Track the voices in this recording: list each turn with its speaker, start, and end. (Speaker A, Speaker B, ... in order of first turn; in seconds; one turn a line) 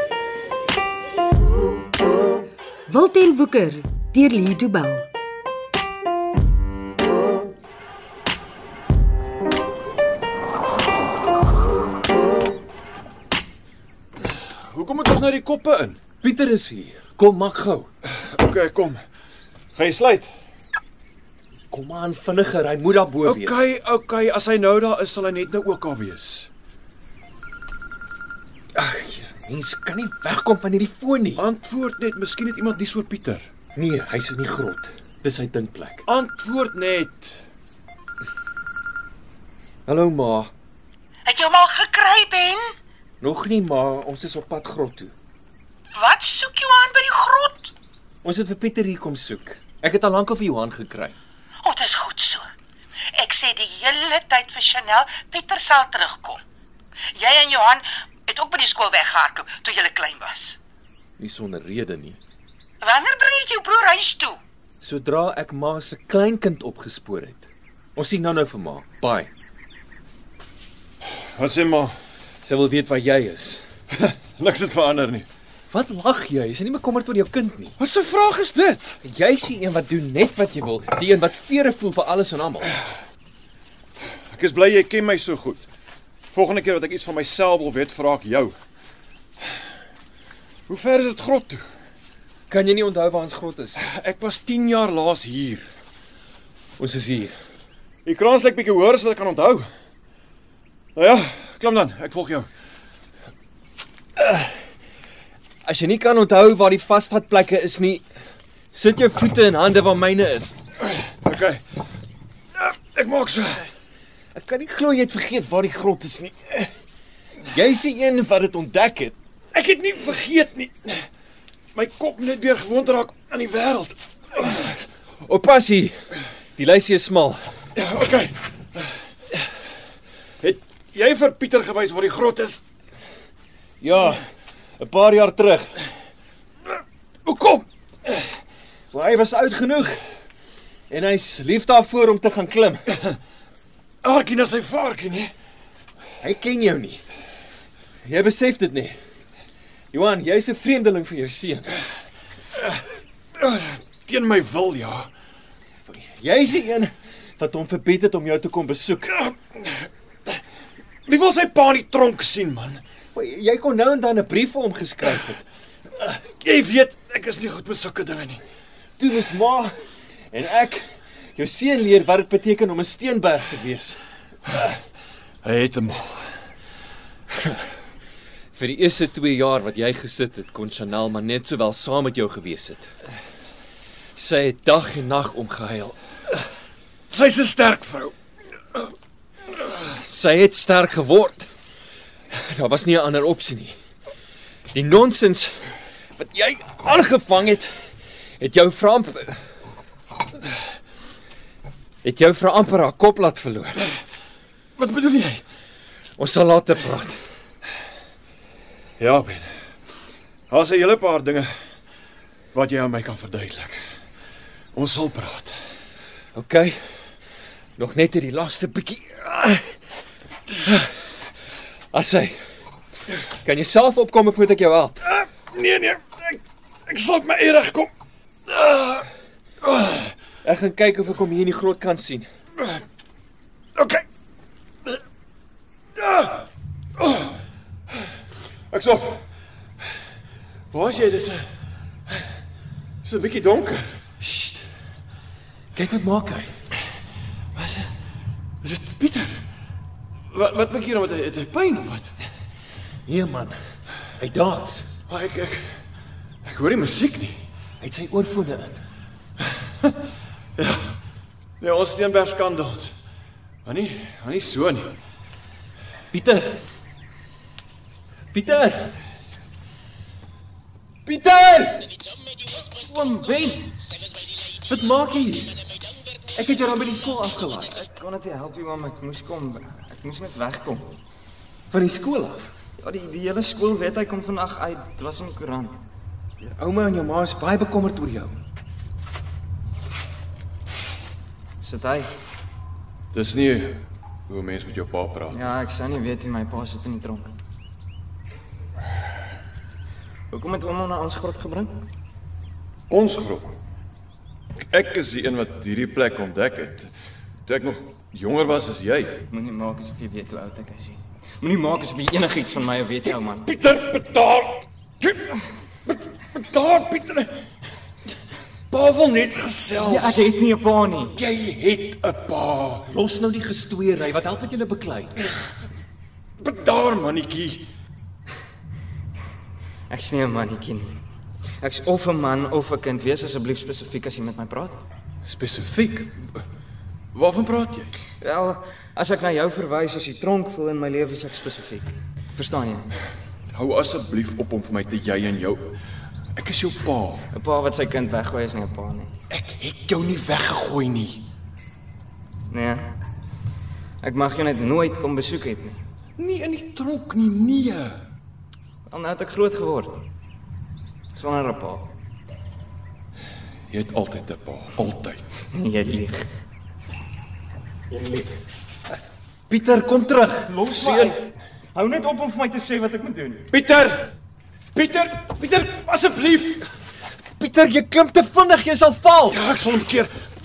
Speaker A: 2.9-5.1
Speaker B: 14.2-16.0
Speaker C: 16.2-17.9
Speaker B: 18.1-19.0
Speaker B: 19.8-20.3
Speaker C: 21.7-23.6
Speaker B: 23.2-26.5
Speaker C: 28.8-31.4
Speaker B: 31.4-33.5
Speaker C: 33.8-36.0
Speaker B: 36.0-37.4
Speaker C: 39.9-40.5
Speaker D: 41.3-42.7
Speaker C: 43.2-45.1
Speaker D: 46.0-47.7
Speaker C: 48.2-51.2
Speaker D: 51.6-52.5
Speaker D: 53.2-56.4
Speaker D: 57.1-60.6
Speaker C: 61.2-62.2
Speaker D: 62.8-64.4
Speaker C: 64.8-69.3
Speaker B: 71.4-72.0
Speaker C: 72.4-73.6
Speaker B: 73.9-75.3
Speaker C: 75.7-77.8
Speaker B: 77.8-78.8
Speaker C: 79.0-82.8
Speaker B: 84.3-85.7
Speaker B: 86.3-88.5
Speaker B: 90.7-91.7
Speaker C: 92.5-93.8
Speaker B: 93.8-95.7
Speaker C: 96.8-97.3
Speaker B: 98.0-99.7
Speaker B: 101.0-102.5
Speaker C: 104.2-104.5
Speaker C: 105.6-108.0
Speaker C: 108.7-110.6
Speaker B: 111.1-111.6
Speaker B: 112.6-113.7
Speaker C: 114.3-116.7
Speaker C: 117.5-119.2
Speaker B: 119.5-121.1
Speaker B: 121.8-124.6
Speaker C: 125.3-126.0
Speaker C: 126.6-127.4
Speaker B: 127.8-128.9
Speaker B: 130.4-132.6
Speaker C: 133.8-134.2
Speaker C: 134.8-135.8
Speaker B: 137.3-137.7
Speaker C: 138.9-140.0
Speaker C: 140.9-142.9
Speaker B: 144.0-145.3
Speaker C: 146.2-147.0
Speaker C: 148.0-149.0
Speaker C: 149.9-151.8
Speaker B: 153.4-155.1
Speaker C: 155.9-159.1
Speaker B: 159.1-159.9
Speaker B: 161.1-162.8
Speaker C: 163.1-165.4
Speaker B: 166.0-168.4
Speaker C: 169.0-169.8
Speaker C: 170.3-174.0
Speaker B: 175.4-176.3
Speaker C: 178.5-182.9
Speaker C: 184.2-186.0
Speaker B: 187.1-188.1
Speaker C: 189.6-191.5
Speaker C: 192.3-193.8
Speaker C: 194.7-195.7
Speaker C: 196.2-197.7
Speaker C: 198.4-199.4
Speaker C: 202.0-203.8
Speaker B: 204.8-205.4
Speaker C: 206.2-207.2
Speaker B: 209.0-209.5
Speaker B: 210.5-211.5
Speaker B: 212.5-213.8
Speaker B: 214.7-215.6
Speaker C: 216.3-216.8
Speaker C: 217.8-219.6
Speaker C: 221.9-222.4
Speaker C: 223.4-225.0
Speaker B: 225.2-227.9
Speaker B: 228.5-229.1
Speaker B: 229.7-230.0
Speaker C: 230.4-232.3
Speaker B: 233.8-234.0
Speaker B: 236.0-236.4
Speaker B: 237.0-237.4
Speaker B: 238.7-239.2
Speaker B: 240.7-241.5
Speaker B: 243.0-243.9
Speaker C: 244.2-244.6
Speaker C: 245.8-246.5
Speaker B: 248.6-249.4
Speaker B: 250.3-252.1
Speaker C: 253.1-253.6
Speaker C: 254.2-254.9
Speaker B: 255.1-255.8
Speaker B: 256.4-257.4
Speaker C: 257.8-258.8
Speaker B: 260.6-260.9
Speaker B: 261.6-262.9
Speaker B: 263.6-265.0
Speaker C: 266.1-266.6
Speaker C: 268.3-269.0
Speaker C: 271.1-271.9
Speaker E: 272.8-273.8
Speaker C: 274.7-275.6
Speaker C: 276.4-277.8
Speaker E: 277.7-281.0
Speaker C: 281.7-282.5
Speaker E: 282.8-285.8
Speaker C: 286.4-288.4
Speaker E: 291.6-292.1
Speaker B: 293.1-295.4
Speaker E: 295.3-297.3
Speaker E: 300.3-301.8
Speaker B: 302.9-303.6
Speaker B: 304.6-306.9
Speaker B: 307.5-309.2
Speaker E: 309.3-313.5
Speaker B: 313.4-317.4
Speaker B: 318.7-320.3
Speaker E: 319.8-321.2
Speaker B: 321.1-322.9
Speaker C: 322.9-325.2
Speaker B: 326.4-327.7
Speaker E: 329.9-331.0
Speaker E: 331.6-334.8
Speaker B: 335.3-336.4
Speaker B: 337.1-337.9
Speaker E: 338.2-342.9
Speaker B: 343.5-345.8
Speaker B: 346.4-347.3
Speaker E: 347.3-349.1
Speaker B: 349.3-351.2
Speaker E: 352.5-352.9
Speaker E: 354.0-355.8
Speaker B: 356.2-358.0
Speaker E: 358.9-360.0
Speaker E: 361.1-361.9
Speaker B: 363.7-365.4
Speaker E: 365.5-366.3
Speaker E: 367.9-368.4
Speaker C: 369.5-371.2
Speaker E: 370.5-373.5
Speaker B: 373.5-374.1
Speaker B: 374.8-375.8
Speaker E: 375.8-376.4
Speaker C: 377.4-379.4
Speaker B: 379.3-380.1